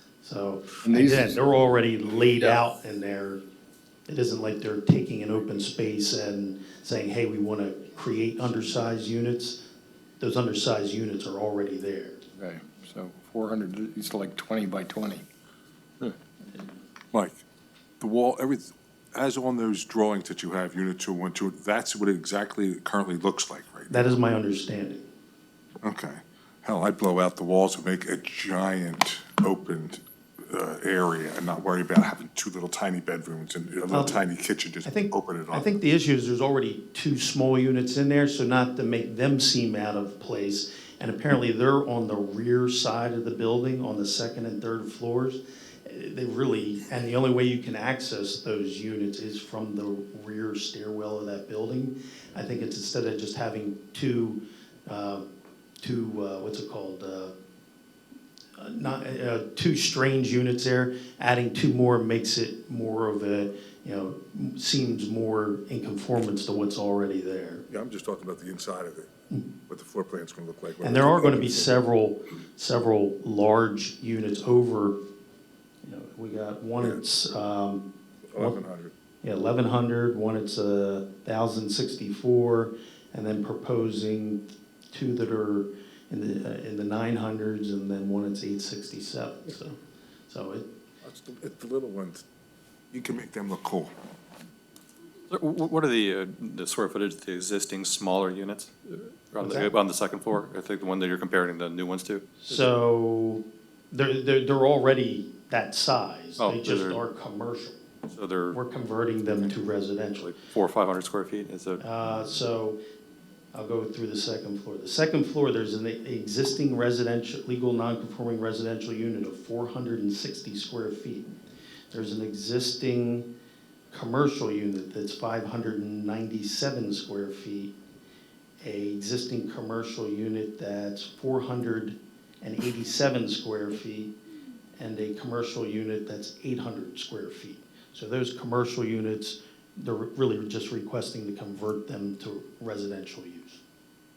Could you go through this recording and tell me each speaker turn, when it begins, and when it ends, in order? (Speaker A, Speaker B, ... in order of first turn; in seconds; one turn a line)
Speaker A: 0.2-3.4
Speaker B: 0.8-1.4
Speaker B: 2.3-2.6
Speaker A: 4.1-9.7
Speaker A: 10.2-12.2
Speaker B: 12.4-15.3
Speaker C: 17.1-17.4
Speaker C: 18.0-24.1
Speaker A: 23.9-25.0
Speaker C: 25.8-35.7
Speaker A: 33.9-34.2
Speaker A: 34.9-55.3
Speaker A: 55.8-57.3
Speaker A: 58.6-67.6
Speaker C: 67.7-69.1
Speaker C: 69.7-71.8
Speaker A: 70.8-75.0
Speaker A: 75.8-78.6
Speaker C: 78.3-78.9
Speaker A: 79.2-89.8
Speaker A: 90.3-90.7
Speaker C: 91.0-92.2
Speaker C: 92.9-93.9
Speaker D: 95.3-98.7
Speaker D: 99.3-102.3
Speaker A: 99.4-99.7
Speaker A: 102.4-107.8
Speaker D: 106.4-107.0
Speaker D: 108.1-108.6
Speaker A: 108.5-110.3
Speaker D: 110.2-111.8
Speaker A: 111.8-112.8
Speaker A: 113.5-121.3
Speaker A: 121.9-123.3
Speaker A: 123.9-127.7
Speaker A: 128.6-134.1
Speaker A: 134.8-143.6